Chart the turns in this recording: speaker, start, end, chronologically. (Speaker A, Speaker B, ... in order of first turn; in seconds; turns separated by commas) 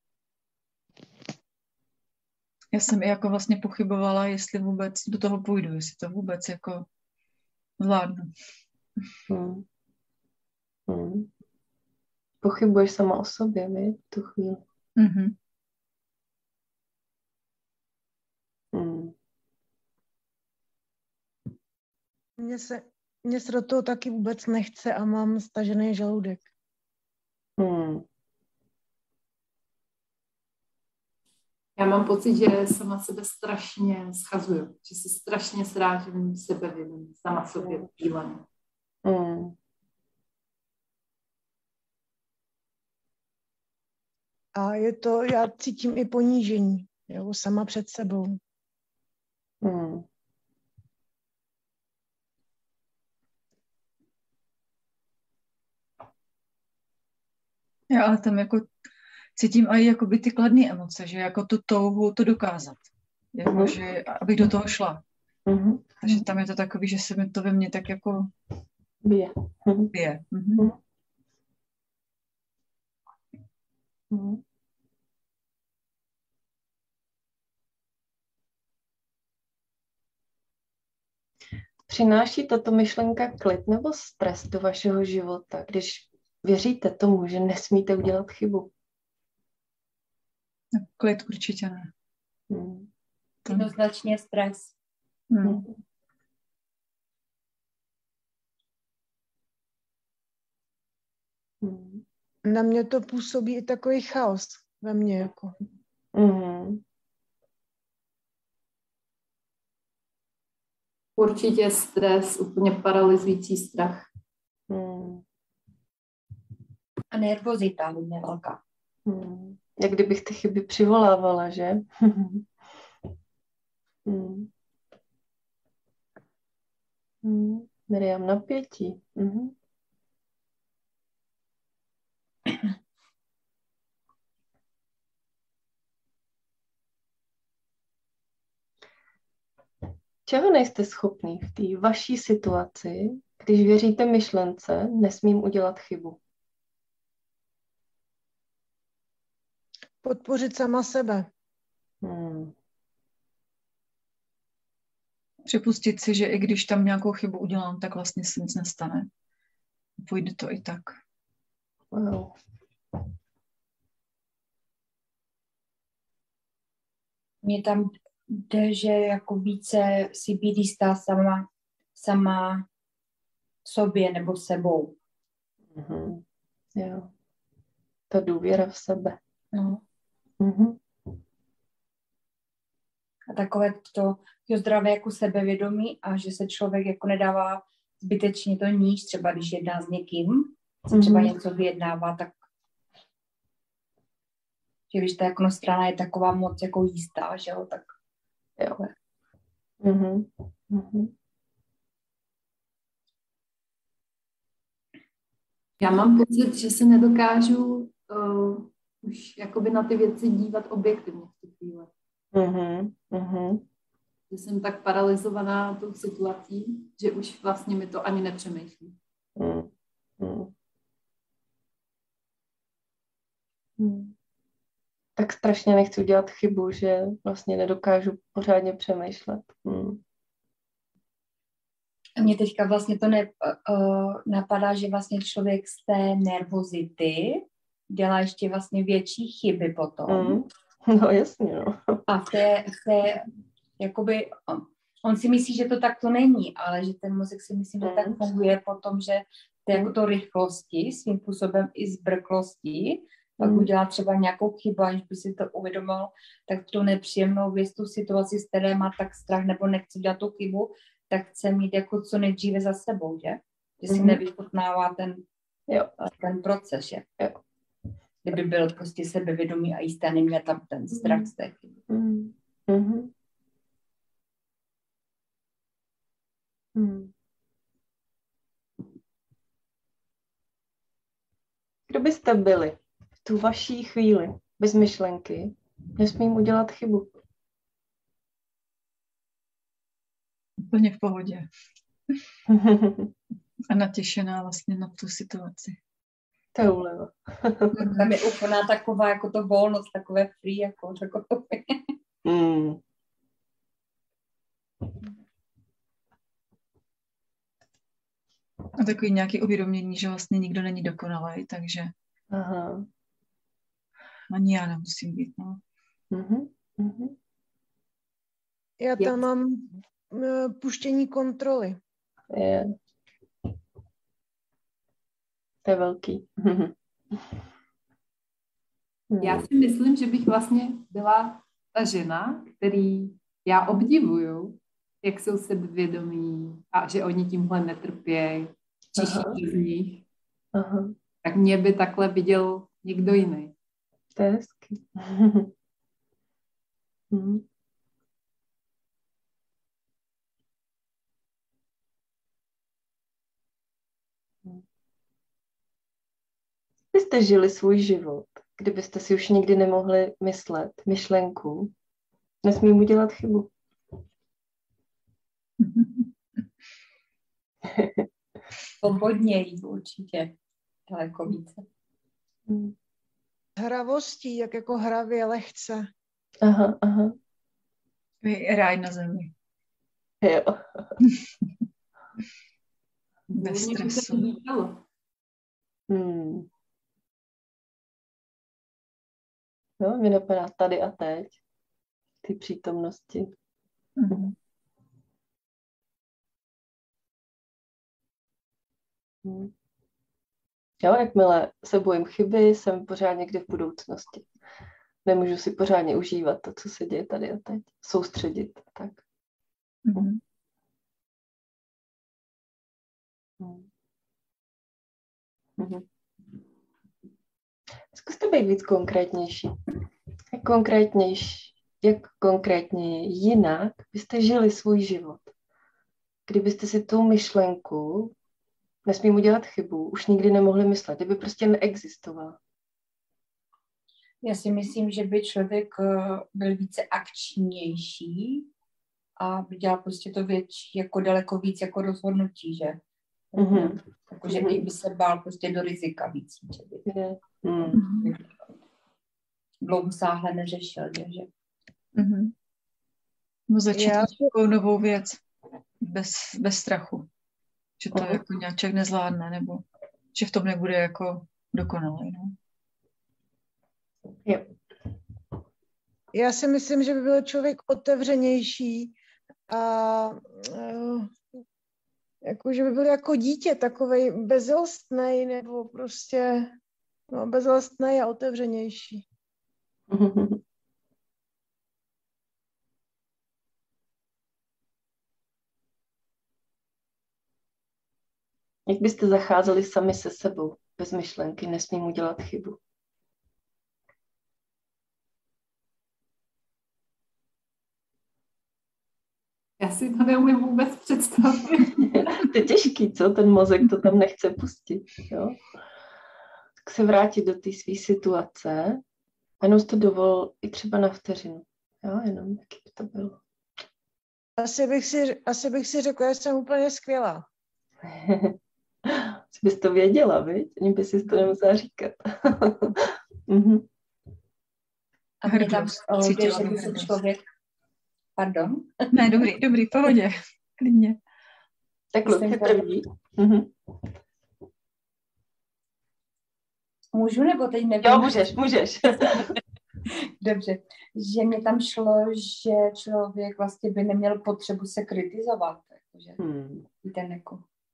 Speaker A: 2.7-6.9, Speaker A: 7.8-8.3, Speaker B: 9.3-9.6, Speaker B: 10.9-11.3, Speaker B: 12.4-14.6, Speaker A: 14.9-15.3, Speaker B: 18.7-19.1, Speaker C: 22.4-26.5, Speaker B: 27.6-28.1, Speaker D: 31.8-38.4, Speaker B: 39.0-39.5, Speaker C: 44.5-48.4, Speaker B: 49.6-50.0, Speaker A: 57.9-58.7, Speaker A: 59.4-65.0, Speaker B: 63.5-63.8, Speaker B: 65.5-66.2, Speaker A: 66.0-68.3, Speaker B: 69.0-69.9, Speaker A: 69.9-70.7, Speaker B: 74.1-74.4, Speaker B: 81.9-88.7, Speaker A: 90.7-91.9, Speaker B: 92.5-92.9, Speaker A: 93.5-93.7, Speaker E: 93.5-94.7, Speaker A: 95.3-95.7, Speaker B: 101.6-102.0, Speaker C: 102.4-105.5, Speaker B: 106.1-106.8, Speaker D: 111.2-114.1, Speaker B: 114.7-115.2, Speaker E: 117.1-118.6, Speaker B: 119.0-122.5, Speaker B: 124.0-124.5, Speaker B: 127.2-129.5, Speaker B: 140.2-146.2, Speaker C: 150.0-151.3, Speaker B: 152.0-152.5, Speaker A: 155.4-159.1, Speaker A: 160.0-160.9, Speaker B: 161.9-162.3, Speaker E: 167.4-172.7, Speaker E: 173.6-174.9, Speaker B: 175.7-176.2, Speaker B: 176.7-177.1, Speaker B: 178.1-179.2, Speaker E: 179.5-179.8, Speaker B: 180.4-180.8, Speaker E: 183.3-192.3, Speaker B: 190.9-191.3, Speaker E: 194.9-197.9, Speaker B: 198.6-198.8, Speaker B: 199.8-201.1, Speaker D: 205.8-211.9, Speaker B: 212.3-213.6, Speaker D: 214.3-219.0, Speaker B: 219.4-220.5, Speaker B: 223.8-224.1, Speaker B: 225.2-230.0, Speaker E: 232.2-240.4, Speaker B: 240.1-242.0, Speaker E: 242.1-243.3, Speaker E: 243.8-265.2, Speaker B: 247.8-248.2, Speaker B: 253.4-253.7, Speaker B: 263.9-264.2, Speaker B: 265.7-265.9, Speaker E: 266.0-267.1, Speaker E: 268.2-271.7, Speaker B: 271.0-271.2, Speaker B: 271.9-273.1, Speaker B: 276.7-277.1, Speaker B: 281.9-287.1, Speaker A: 290.6-291.5, Speaker B: 292.5-293.1, Speaker A: 293.7-295.8, Speaker B: 296.5-297.9, Speaker E: 297.9-301.8, Speaker B: 302.2-302.8, Speaker A: 308.8-311.9, Speaker B: 312.3-312.9, Speaker A: 314.3-315.6, Speaker B: 316.1-317.1, Speaker C: 318.8-321.8, Speaker B: 322.3-322.7, Speaker B: 325.6-327.3, Speaker B: 329.1-329.5, Speaker D: 329.2-340.0, Speaker B: 339.0-339.4, Speaker B: 340.5-340.9, Speaker D: 341.2-343.5, Speaker B: 344.1-345.5, Speaker B: 347.1-347.4, Speaker B: 356.9-361.7, Speaker B: 362.4-363.5, Speaker A: 365.6-366.1, Speaker B: 367.6-368.1, Speaker E: 368.8-370.4, Speaker E: 370.9-371.6, Speaker B: 372.5-372.7, Speaker C: 373.6-375.9, Speaker B: 376.4-377.2, Speaker A: 378.2-379.3, Speaker B: 380.2-380.9, Speaker D: 383.3-384.8, Speaker A: 383.4-384.3, Speaker B: 385.9-386.5, Speaker B: 389.8-391.4, Speaker B: 392.2-393.3, Speaker A: 394.0-394.3, Speaker B: 399.2-399.5, Speaker B: 400.8-404.3, Speaker B: 405.0-409.0, Speaker A: 409.8-410.2, Speaker B: 413.4-413.7, Speaker B: 415.6-415.8, Speaker B: 417.9-419.6, Speaker B: 420.3-425.3, Speaker B: 426.3-428.1, Speaker B: 428.9-432.4, Speaker E: 434.2-438.5, Speaker E: 439.2-442.8, Speaker E: 443.3-446.8, Speaker B: 443.4-444.6, Speaker B: 446.9-447.8, Speaker A: 447.7-448.1, Speaker E: 449.6-451.3, Speaker A: 451.9-452.3, Speaker A: 453.5-455.2, Speaker C: 453.7-454.3, Speaker A: 455.8-457.1, Speaker A: 457.8-462.4, Speaker B: 457.9-458.2, Speaker B: 464.2-464.5, Speaker C: 466.1-468.9, Speaker C: 469.5-471.1, Speaker C: 472.2-476.6, Speaker C: 477.1-479.1, Speaker B: 479.9-480.4, Speaker B: 488.7-492.6, Speaker D: 499.6-502.2, Speaker B: 501.8-505.4, Speaker B: 506.6-508.8, Speaker B: 509.4-513.2, Speaker C: 514.4-517.2, Speaker B: 517.8-523.7, Speaker E: 525.2-527.2, Speaker A: 525.2-527.0, Speaker E: 528.1-529.2, Speaker A: 528.9-531.0, Speaker B: 531.9-533.5, Speaker E: 532.0-532.6, Speaker E: 536.9-538.3, Speaker B: 537.8-539.3, Speaker E: 540.2-546.2, Speaker B: 546.2-546.6, Speaker E: 546.8-547.5